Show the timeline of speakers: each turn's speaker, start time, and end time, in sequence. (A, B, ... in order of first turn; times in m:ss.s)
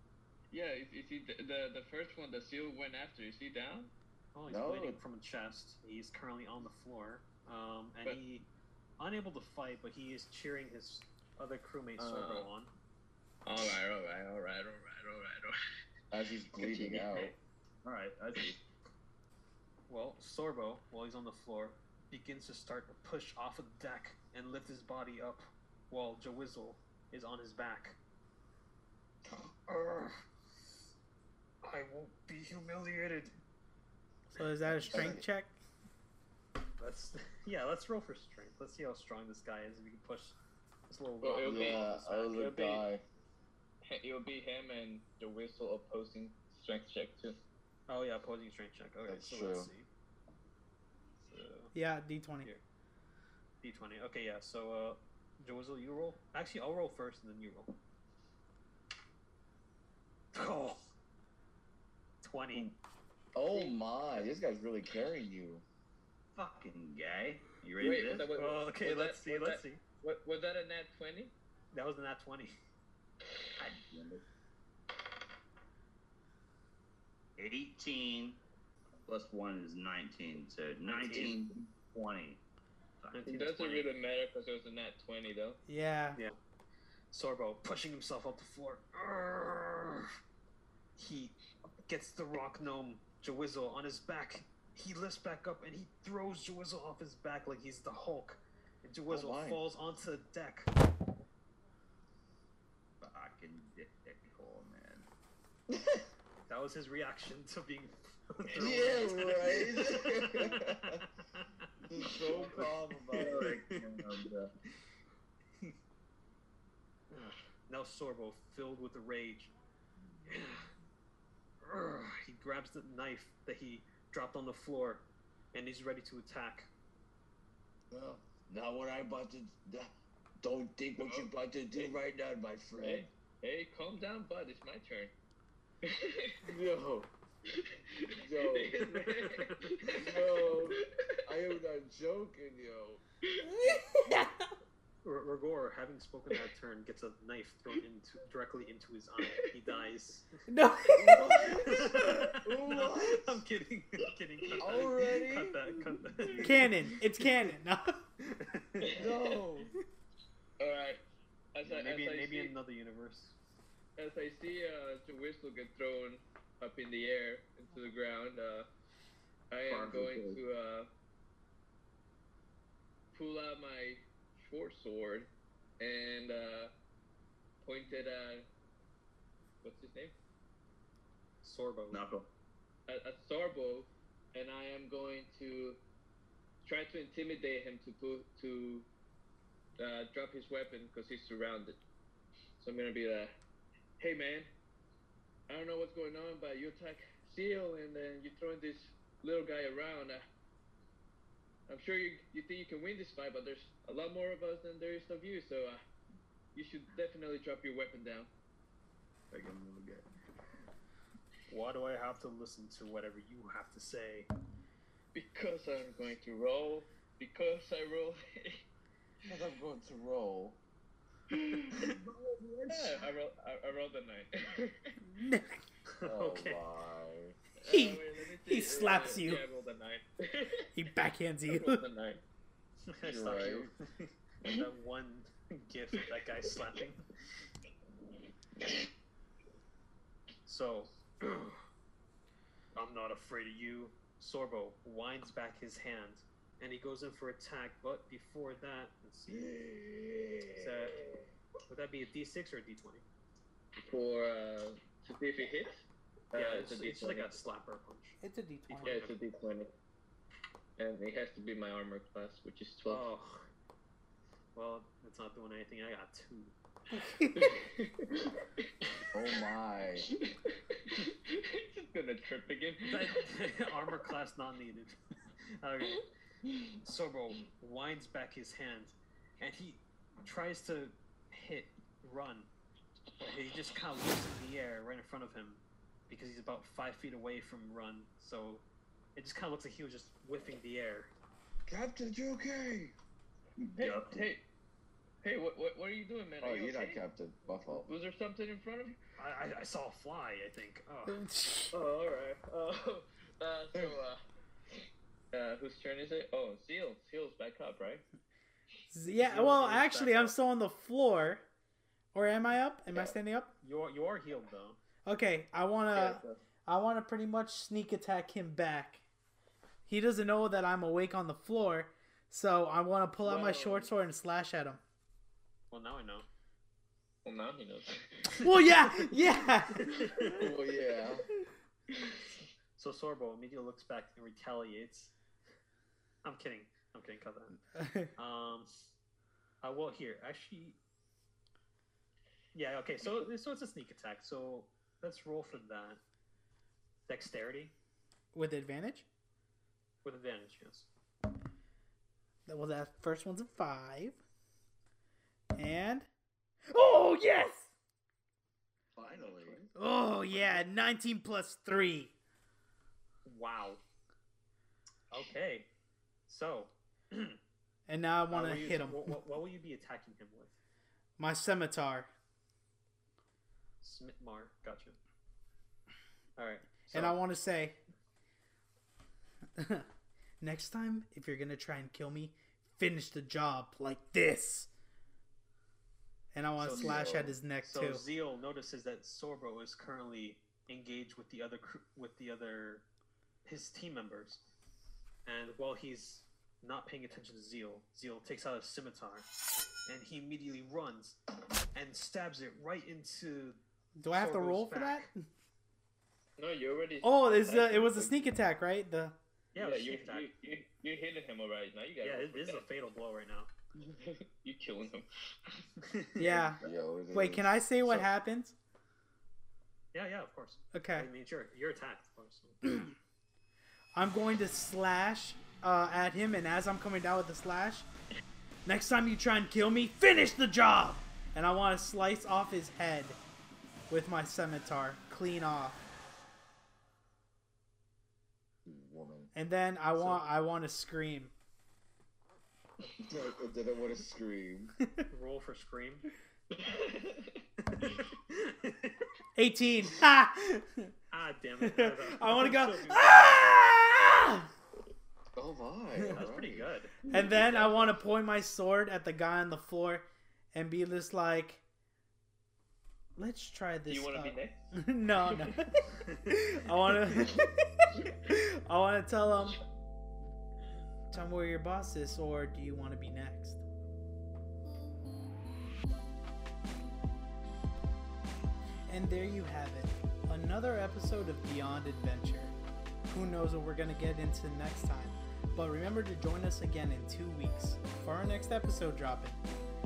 0:00.5-0:03.9 A
0:04.3-0:08.5 B
0:04.5-0:05.0 C
0:09.0-0:12.7 B
0:12.0-0:12.5 A
0:13.5-0:15.6 A
0:16.1-0:17.4 C
0:16.6-0:17.3 A
0:17.8-0:18.6 D
0:19.9-0:28.0 B
0:29.6-0:30.3 B
0:31.6-0:33.3 B
0:34.4-0:35.2 B
0:34.4-0:35.6 E
0:34.9-0:35.3 C
0:36.8-0:40.4 B
0:40.9-0:42.4 B
0:41.2-0:42.9 A
0:41.4-0:43.0 C
0:43.9-0:47.4 A
0:47.9-0:49.9 B
0:49.1-0:49.7 C
0:51.2-0:51.7 B
0:51.7-0:52.5 E
0:53.6-0:57.8 B
1:00.3-1:00.8 B
1:02.2-1:02.7 B
1:03.4-1:05.6 C
1:06.3-1:08.3 D
1:07.8-1:11.3 A
1:08.3-1:09.8 B
1:11.7-1:12.5 B
1:13.6-1:14.2 D
1:17.4-1:18.4 D
1:19.1-1:22.4 D
1:20.8-1:21.5 B
1:23.1-1:23.9 B
1:23.2-1:25.6 A
1:25.7-1:26.2 E
1:27.1-1:30.2 B
1:31.0-1:31.4 B
1:31.9-1:40.7 B
1:39.1-1:39.6 C
1:43.0-1:45.1 D
1:45.7-1:46.0 C
1:46.5-1:50.8 B
1:48.6-1:51.0 C
1:51.3-1:54.2 B
1:51.8-1:53.6 C
1:53.1-1:54.5 D
1:57.1-1:59.5 B
2:00.3-2:00.7 B
2:01.6-2:06.7 B
2:07.9-2:13.1 C
2:11.0-2:12.0 A
2:12.8-2:15.1 A
2:15.8-2:16.4 A
2:16.4-2:17.1 C
2:17.5-2:21.2 A
2:18.2-2:18.8 C
2:19.0-2:20.0 B
2:19.9-2:23.0 C
2:23.4-2:24.4 E
2:25.0-2:30.4 B
2:30.5-2:32.0 E
2:30.9-2:33.4 C
2:31.6-2:37.2 B
2:34.6-2:36.8 C
2:36.4-2:38.0 E
2:38.2-2:39.0 B
2:38.9-2:39.7 C
2:38.9-2:39.4 A
2:40.6-2:41.0 A
2:41.5-2:42.5 A
2:41.6-2:43.4 B
2:44.0-2:48.7 A
2:49.5-2:50.9 A
2:49.7-2:50.4 D
2:53.1-2:56.7 A
2:57.6-2:58.5 A
2:59.6-3:00.1 A
3:01.4-3:02.0 B
3:01.9-3:02.3 D
3:02.9-3:05.8 A
3:06.6-3:08.9 A
3:09.8-3:11.8 A
3:12.6-3:13.4 A
3:14.0-3:14.5 A
3:15.5-3:20.2 A
3:21.7-3:25.8 A
3:26.6-3:28.3 A
3:29.3-3:30.1 D
3:31.5-3:34.3 B
3:35.1-3:38.6 A
3:39.2-3:40.6 C
3:41.3-3:41.8 A
3:41.8-3:43.0 D
3:42.7-3:45.0 A
3:45.1-3:45.6 E
3:45.9-3:46.6 B
3:46.0-3:47.4 C
3:47.6-3:50.7 A
3:47.7-3:49.4 E
3:50.7-3:51.8 E
3:51.5-3:52.2 A
3:52.8-3:57.1 B
3:53.0-3:53.7 C
4:00.5-4:01.6 B
4:02.8-4:09.6 B
4:09.3-4:11.2 C
4:10.5-4:11.0 B
4:11.7-4:13.0 B
4:13.8-4:17.4 A
4:16.3-4:19.2 B
4:18.2-4:19.0 E
4:18.8-4:19.7 A
4:20.8-4:23.1 A
4:22.9-4:23.5 B
4:24.6-4:26.5 B
4:26.9-4:27.5 E
4:27.4-4:28.4 A
4:29.1-4:30.1 C
4:30.2-4:33.3 A
4:32.8-4:35.0 B
4:35.5-4:36.0 B
4:35.9-4:36.7 A
4:36.8-4:42.5 B
4:43.2-4:48.6 B
4:49.2-4:51.1 B
4:51.7-4:52.9 C
4:53.6-4:54.3 D
4:53.8-4:54.4 A
4:55.2-4:57.0 A
4:56.4-4:57.9 C
4:57.6-4:59.0 A
4:59.2-5:01.2 B
5:01.1-5:01.8 E
5:01.7-5:04.2 A
5:05.3-5:08.0 A
5:08.9-5:11.4 E
5:09.2-5:10.4 B
5:12.1-5:13.5 E
5:12.9-5:13.2 A
5:13.6-5:14.8 B
5:15.1-5:19.0 E
5:15.9-5:16.4 A
5:19.9-5:24.8 E
5:23.2-5:23.9 A
5:25.7-5:26.3 B
5:27.2-5:28.6 A
5:28.4-5:30.5 E
5:28.9-5:30.4 B
5:30.2-5:31.3 C
5:32.8-5:35.2 B
5:36.2-5:37.6 B
5:37.8-5:38.1 E
5:38.2-5:38.9 B
5:39.6-5:40.8 B
5:42.5-5:46.0 B
5:47.1-5:47.7 B
5:48.3-5:49.1 E
5:50.0-5:50.9 B
5:52.5-5:54.2 E
5:55.6-5:56.1 E
5:56.7-5:57.7 E
5:59.0-5:59.6 C
5:59.8-6:02.1 E
6:03.3-6:03.8 B
6:05.1-6:05.7 B
6:06.3-6:07.4 B
6:07.9-6:09.1 E
6:08.3-6:10.6 B
6:11.2-6:12.1 E
6:13.8-6:15.0 B
6:16.4-6:17.2 B
6:16.9-6:17.8 E
6:19.6-6:19.9 E
6:20.4-6:24.7 E
6:26.3-6:28.1 E
6:26.6-6:32.8 B
6:26.7-6:27.4 C
6:33.4-6:34.4 B
6:35.2-6:39.3 B
6:39.9-6:41.2 B
6:41.8-6:45.1 B
6:44.0-6:45.1 E
6:46.4-6:48.3 A
6:47.0-6:49.2 E
6:49.5-6:50.3 B
6:49.6-6:52.6 A
6:52.0-6:53.5 B
6:53.8-6:55.6 A
6:55.8-6:56.3 B
6:56.2-6:58.6 E
6:56.6-6:58.1 C
6:59.9-7:02.6 B
7:00.7-7:01.1 E
7:02.6-7:02.9 E
7:03.9-7:07.9 E
7:08.7-7:13.2 E
7:13.9-7:15.8 E
7:18.6-7:19.3 C
7:19.3-7:21.3 E
7:19.9-7:20.3 B
7:23.0-7:24.8 C
7:25.1-7:26.1 B
7:26.5-7:27.4 A
7:27.6-7:29.1 B
7:29.4-7:30.9 E
7:31.1-7:33.2 B
7:31.8-7:34.5 E
7:35.4-7:36.7 C
7:36.1-7:37.1 B
7:37.1-7:41.6 E
7:43.2-7:49.6 E
7:43.9-7:45.8 A
7:46.0-7:46.3 B
7:47.0-7:47.5 A
7:51.1-7:53.6 E
7:58.9-8:02.5 E
8:03.1-8:09.4 E